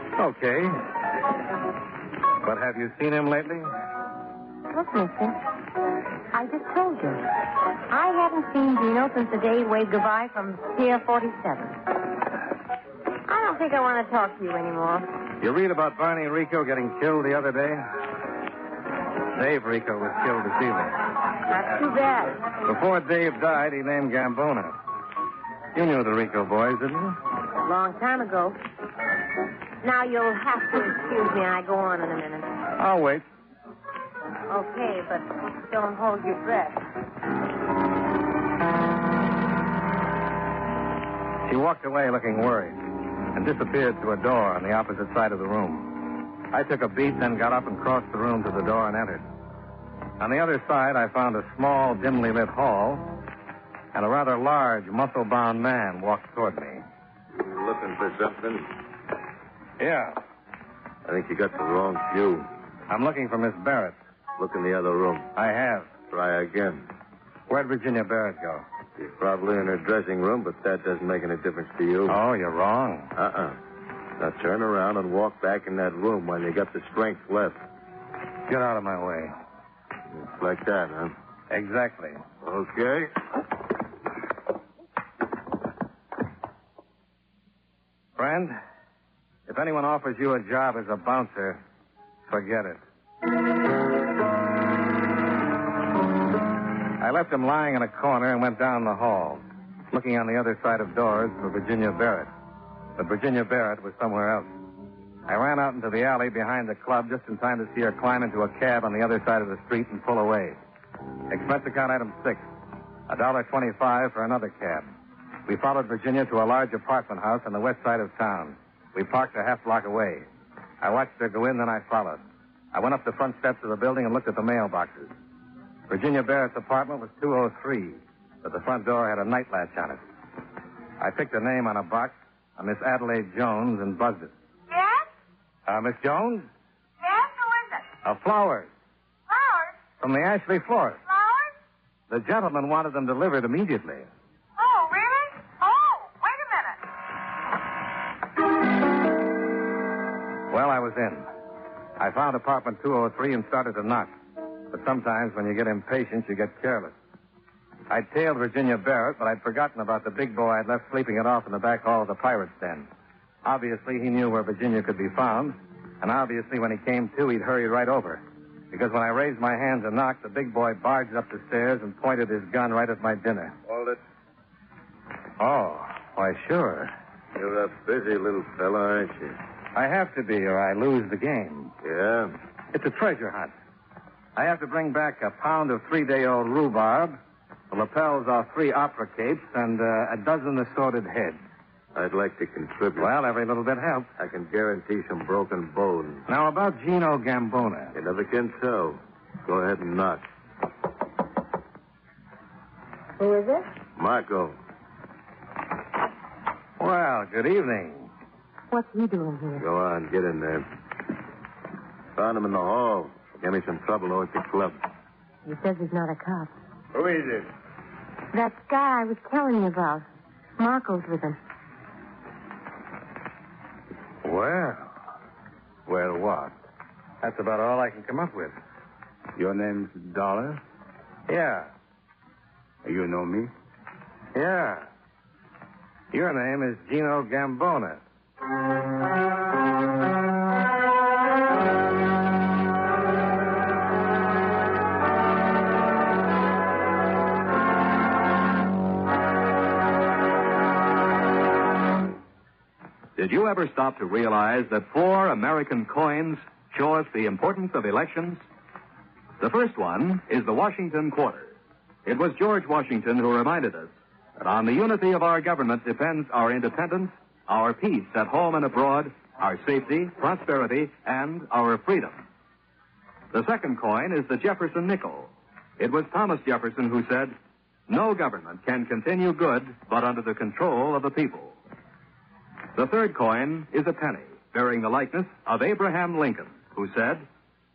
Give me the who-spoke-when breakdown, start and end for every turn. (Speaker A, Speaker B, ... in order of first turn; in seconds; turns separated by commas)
Speaker A: 0.1-0.8, Speaker A: 2.4-3.7, Speaker B: 4.7-5.4, Speaker B: 6.3-7.2, Speaker B: 7.9-11.8, Speaker B: 13.2-15.1, Speaker A: 15.4-17.9, Speaker A: 19.3-21.0, Speaker B: 21.5-22.4, Speaker A: 22.6-24.7, Speaker A: 25.7-27.2, Speaker B: 27.6-28.6, Speaker B: 29.8-32.6, Speaker A: 32.8-33.2, Speaker B: 34.5-36.8, Speaker A: 41.5-42.8, Speaker A: 43.3-49.2, Speaker A: 50.2-53.1, Speaker A: 53.9-56.8, Speaker C: 57.4-58.7, Speaker A: 59.8-60.2, Speaker C: 61.0-62.5, Speaker A: 62.9-64.0, Speaker C: 64.4-65.3, Speaker A: 65.3-65.9, Speaker C: 66.1-66.8, Speaker A: 67.5-68.6, Speaker C: 69.0-72.2, Speaker A: 72.1-73.1, Speaker C: 73.1-73.6, Speaker C: 74.2-77.6, Speaker A: 78.5-79.3, Speaker C: 80.1-81.1, Speaker A: 81.5-82.2, Speaker C: 82.4-83.1, Speaker A: 88.2-88.6, Speaker A: 89.5-91.6, Speaker A: 92.3-92.8, Speaker A: 97.0-102.3, Speaker A: 103.0-104.5, Speaker A: 105.3-110.6, Speaker A: 111.3-112.4, Speaker A: 113.1-114.9, Speaker A: 115.5-120.2, Speaker A: 120.8-122.2, Speaker A: 122.7-125.1, Speaker A: 125.9-130.0, Speaker A: 131.0-134.3, Speaker D: 134.7-135.1, Speaker A: 135.7-136.5, Speaker D: 137.0-137.8, Speaker A: 138.0-138.7, Speaker D: 139.3-139.8, Speaker A: 140.0-141.0, Speaker D: 141.1-141.5, Speaker A: 142.1-144.1, Speaker D: 144.6-146.8, Speaker A: 150.5-151.2, Speaker A: 152.0-154.1, Speaker A: 154.7-156.9, Speaker A: 157.9-162.9, Speaker A: 163.4-173.5, Speaker C: 173.7-174.0, Speaker A: 175.4-176.9, Speaker C: 177.3-179.3, Speaker A: 179.7-181.7, Speaker C: 181.8-182.4, Speaker A: 182.7-183.5, Speaker A: 184.3-187.2, Speaker A: 187.7-191.4, Speaker C: 191.9-193.1, Speaker A: 193.0-194.1, Speaker C: 194.2-196.2, Speaker A: 196.3-197.9, Speaker C: 197.9-200.2, Speaker D: 203.2-203.6, Speaker C: 204.0-204.5, Speaker A: 206.8-208.1, Speaker B: 208.7-209.6, Speaker C: 209.6-210.7, Speaker C: 212.2-214.8, Speaker B: 215.4-216.5, Speaker C: 216.9-217.5, Speaker B: 218.3-220.0, Speaker B: 220.6-221.4, Speaker A: 224.2-224.9, Speaker A: 225.9-226.5, Speaker A: 227.2-228.5, Speaker E: 229.3-230.6, Speaker A: 231.3-231.7, Speaker E: 232.8-233.5, Speaker A: 234.3-234.9, Speaker A: 236.1-238.0, Speaker F: 253.2-258.4, Speaker F: 259.4-261.5, Speaker F: 262.0-272.2, Speaker F: 273.3-277.3, Speaker F: 277.9-281.5, Speaker F: 282.7-287.2